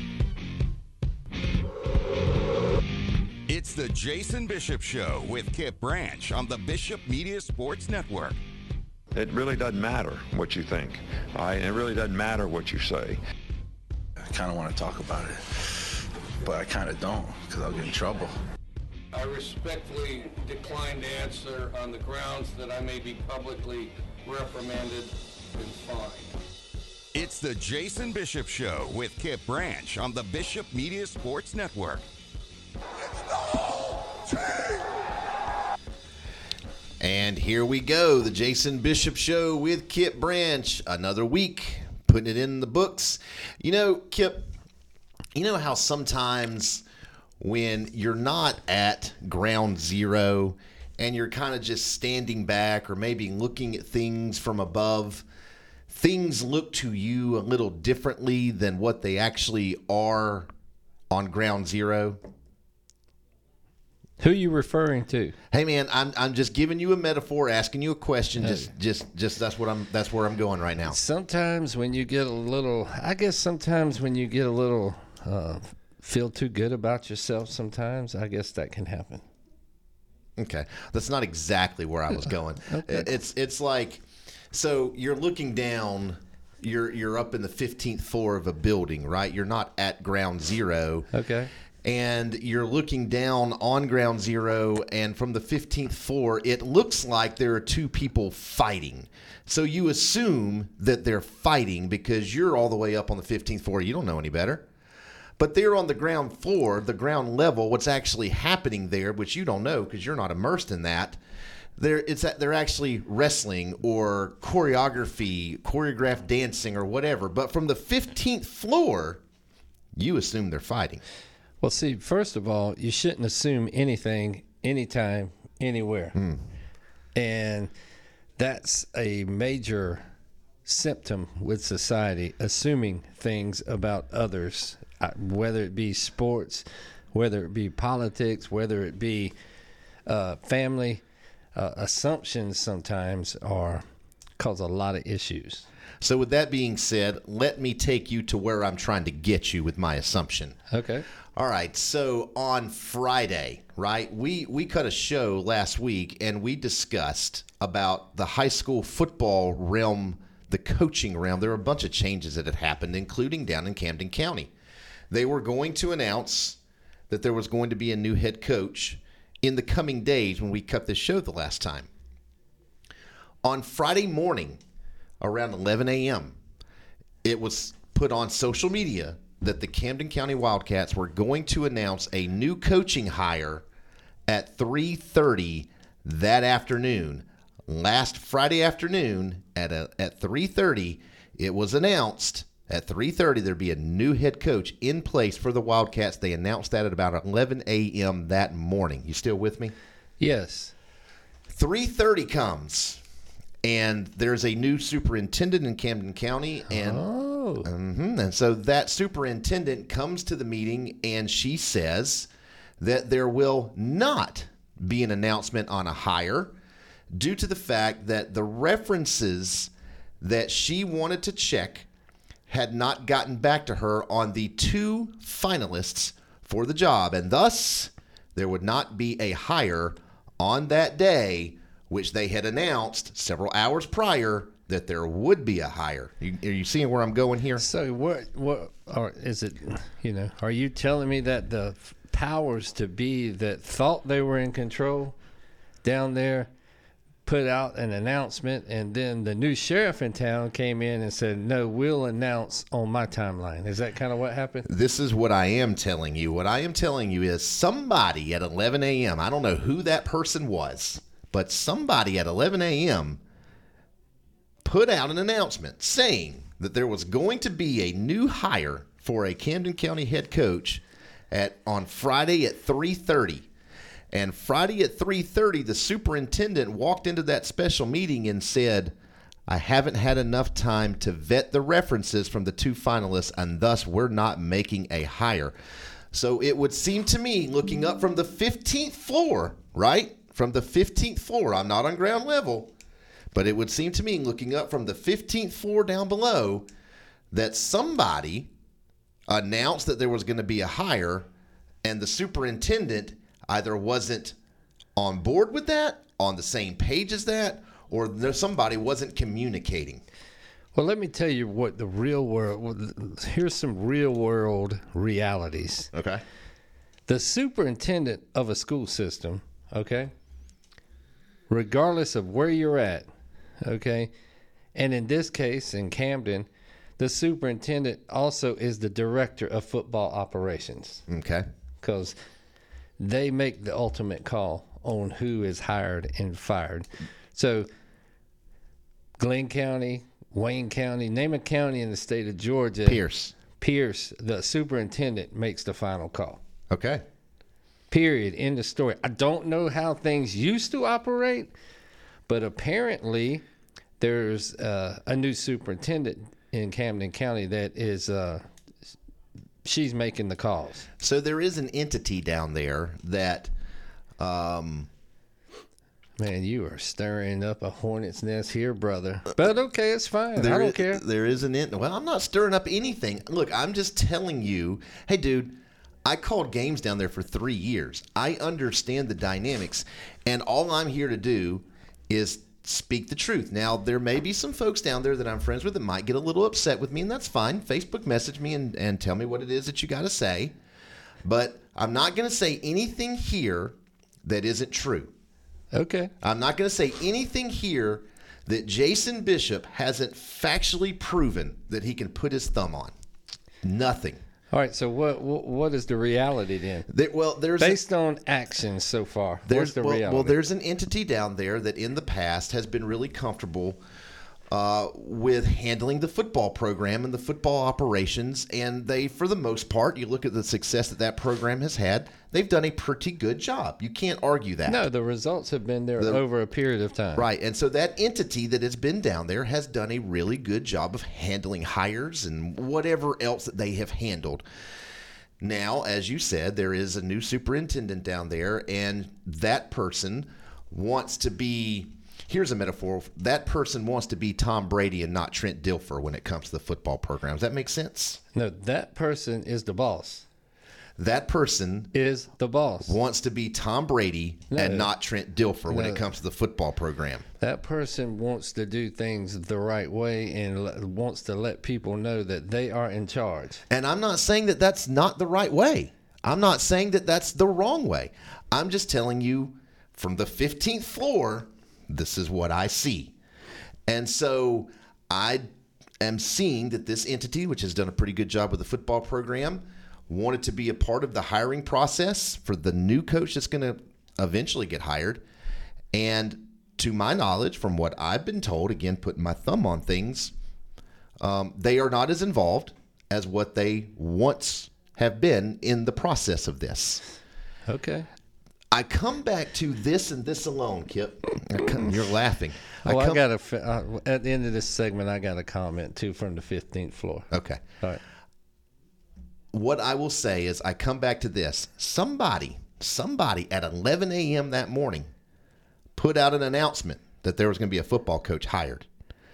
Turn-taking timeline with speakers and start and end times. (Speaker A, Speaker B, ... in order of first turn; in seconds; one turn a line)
Speaker A: 3.5-8.4
Speaker B: 9.1-13.2
Speaker C: 14.2-18.3
Speaker D: 19.1-26.3
Speaker A: 27.1-32.0
Speaker E: 37.0-44.5
Speaker E: 45.4-46.8
Speaker E: 47.4-55.2
Speaker E: 55.9-60.5
Speaker E: 61.1-62.2
Speaker F: 64.2-65.4
Speaker E: 65.5-71.0
Speaker F: 68.4-68.7
Speaker F: 70.8-79.2
Speaker E: 80.4-84.0
Speaker F: 82.7-83.1
Speaker E: 84.5-91.1
Speaker F: 91.1-91.5
Speaker E: 91.8-104.6
Speaker E: 105.4-111.2
Speaker E: 111.8-119.2
Speaker E: 120.0-121.0
Speaker F: 121.6-126.2
Speaker F: 127.1-127.7
Speaker F: 128.4-130.1
Speaker F: 130.7-139.3
Speaker F: 140.1-141.0
Speaker F: 141.5-143.8
Speaker F: 144.4-145.7
Speaker E: 146.0-150.6
Speaker F: 150.7-151.0
Speaker E: 151.4-164.5
Speaker E: 165.1-166.6
Speaker E: 167.1-171.9
Speaker E: 173.4-174.6
Speaker E: 175.2-176.3
Speaker E: 177.2-183.6
Speaker E: 184.3-199.7
Speaker F: 200.2-200.7
Speaker E: 201.5-203.0
Speaker E: 203.6-207.0
Speaker F: 206.7-207.7
Speaker E: 207.6-212.3
Speaker E: 212.8-216.5
Speaker E: 217.2-219.7
Speaker E: 220.2-221.8
Speaker E: 222.5-237.6
Speaker F: 237.6-245.1
Speaker F: 245.8-246.5
Speaker F: 247.2-254.7
Speaker E: 254.7-263.2
Speaker E: 264.6-273.5
Speaker E: 274.1-278.9
Speaker E: 279.5-285.5
Speaker E: 286.1-292.7
Speaker E: 293.3-296.6
Speaker E: 297.3-298.5
Speaker E: 299.3-301.2
Speaker E: 301.8-304.3
Speaker E: 305.0-310.0
Speaker F: 310.7-315.9
Speaker E: 315.9-316.2
Speaker F: 317.1-320.1
Speaker F: 321.5-323.1
Speaker F: 323.6-324.1
Speaker F: 324.7-326.5
Speaker F: 327.0-331.0
Speaker E: 331.1-331.4
Speaker F: 331.8-332.1
Speaker F: 333.0-337.7
Speaker F: 339.2-346.4
Speaker E: 342.9-343.3
Speaker E: 346.7-347.0
Speaker F: 347.9-351.5
Speaker F: 352.3-353.4
Speaker F: 354.0-358.5
Speaker F: 359.6-360.9
Speaker E: 361.0-363.5
Speaker E: 364.2-364.9
Speaker F: 366.2-371.0
Speaker E: 370.4-390.5
Speaker E: 391.2-393.7
Speaker E: 394.2-395.1
Speaker F: 395.7-396.1
Speaker E: 396.2-402.9
Speaker E: 403.6-404.2
Speaker F: 404.5-406.9
Speaker E: 406.9-407.8
Speaker F: 407.6-410.4
Speaker E: 409.5-413.8
Speaker E: 414.5-424.9
Speaker F: 424.6-427.3
Speaker E: 427.1-434.4
Speaker E: 435.4-448.2
Speaker F: 448.3-450.2
Speaker E: 451.0-451.9
Speaker F: 451.9-452.9
Speaker E: 452.9-457.2
Speaker F: 454.5-454.9
Speaker F: 455.7-456.0
Speaker F: 457.4-463.6
Speaker E: 463.7-473.1
Speaker E: 473.9-475.4
Speaker E: 476.0-485.2
Speaker E: 485.9-490.3
Speaker E: 491.2-497.0
Speaker F: 497.7-498.1
Speaker E: 498.7-503.2
Speaker F: 502.8-507.3
Speaker E: 507.3-507.6
Speaker E: 509.5-515.1
Speaker E: 516.0-518.9